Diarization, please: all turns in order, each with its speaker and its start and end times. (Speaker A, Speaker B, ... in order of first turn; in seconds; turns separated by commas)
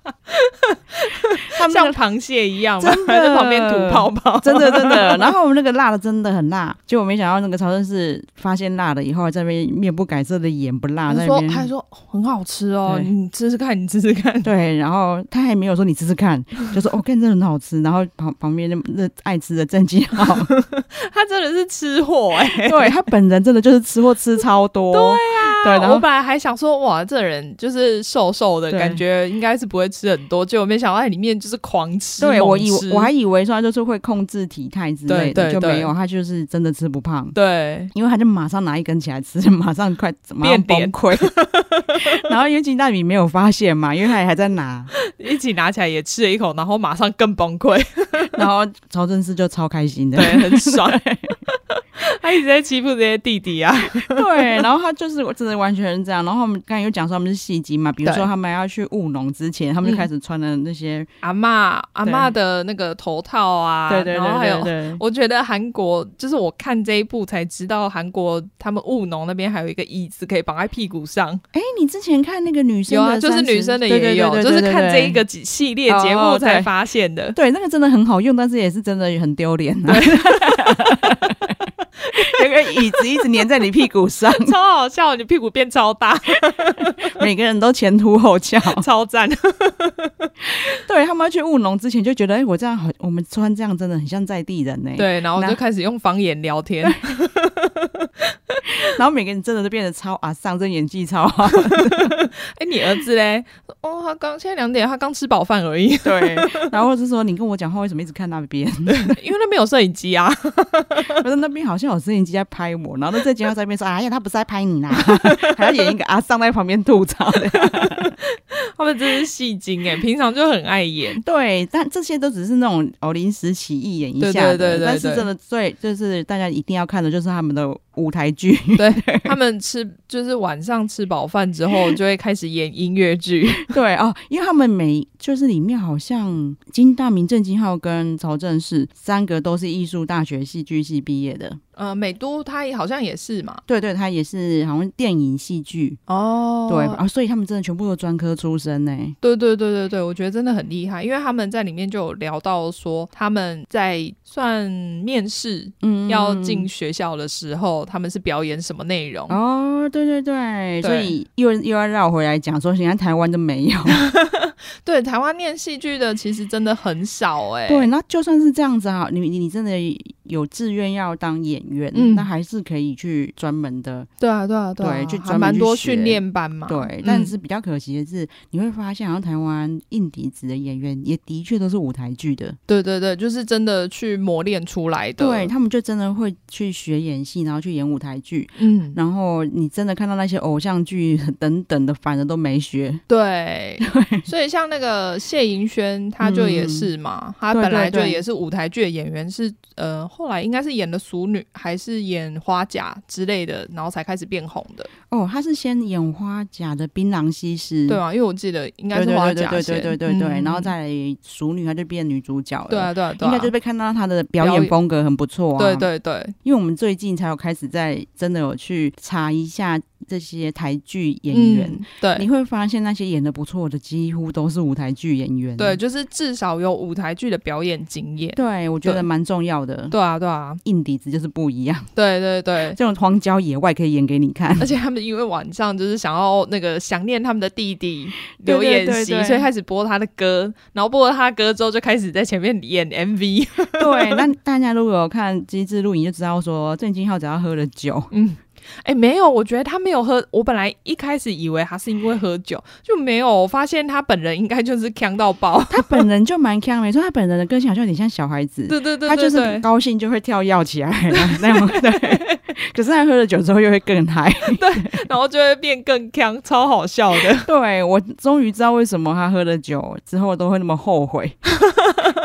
Speaker A: 0.3-5.3, Speaker B: 1.5-2.0, Speaker B: 2.8-11.7, Speaker A: 11.1-14.5, Speaker B: 14.4-20.5, Speaker A: 20.5-22.9, Speaker B: 22.5-26.0, Speaker A: 24.9-33.1, Speaker B: 28.7-29.0, Speaker B: 32.2-37.4, Speaker A: 35.1-35.9, Speaker A: 37.3-37.9, Speaker B: 37.9-41.3, Speaker A: 40.4-42.2, Speaker B: 42.0-44.9, Speaker A: 45.0-48.4, Speaker B: 48.4-51.3, Speaker A: 50.1-54.6, Speaker B: 54.0-61.1, Speaker A: 61.2-71.4, Speaker B: 62.0-62.3, Speaker B: 63.9-65.0, Speaker B: 71.5-75.2, Speaker A: 72.9-77.4, Speaker B: 75.9-76.7, Speaker B: 77.3-84.5, Speaker A: 79.9-81.1, Speaker A: 82.0-83.3, Speaker A: 84.3-87.1, Speaker B: 87.1-88.9, Speaker A: 88.7-90.3, Speaker B: 90.4-95.6, Speaker A: 95.0-98.8, Speaker B: 98.7-102.2, Speaker A: 101.5-106.7, Speaker B: 106.0-109.2, Speaker A: 108.9-111.2, Speaker B: 111.1-118.1, Speaker A: 115.0-115.9, Speaker A: 117.5-121.2, Speaker B: 121.2-129.3, Speaker A: 124.2-125.3, Speaker A: 128.8-133.7, Speaker B: 133.7-141.6, Speaker A: 141.8-143.6, Speaker B: 143.7-146.0, Speaker A: 146.1-147.0, Speaker B: 146.7-149.1, Speaker A: 149.2-159.4, Speaker B: 155.8-156.7, Speaker B: 159.3-164.0, Speaker A: 160.8-161.1, Speaker A: 163.9-167.9, Speaker B: 167.7-174.1, Speaker A: 171.9-172.3, Speaker A: 174.2-177.3, Speaker B: 174.8-182.6, Speaker A: 182.7-185.5, Speaker B: 185.2-193.0, Speaker A: 188.6-189.0, Speaker A: 193.1-204.9, Speaker B: 193.8-194.3, Speaker B: 196.2-196.9, Speaker B: 197.5-198.2, Speaker B: 205.1-208.0, Speaker A: 207.9-210.7, Speaker B: 208.9-215.9, Speaker A: 212.7-213.5, Speaker A: 214.4-214.7, Speaker A: 215.6-216.3, Speaker B: 216.4-225.8, Speaker A: 221.3-222.2, Speaker A: 225.6-229.1, Speaker B: 228.3-229.9, Speaker A: 229.9-230.6, Speaker B: 230.6-231.9, Speaker A: 231.9-232.8, Speaker B: 232.7-234.7, Speaker A: 234.6-244.2, Speaker B: 238.4-239.5, Speaker B: 243.8-248.1, Speaker A: 248.1-256.0, Speaker B: 255.7-265.0, Speaker A: 258.7-259.6, Speaker A: 261.1-262.4, Speaker A: 264.5-267.5, Speaker B: 267.2-271.4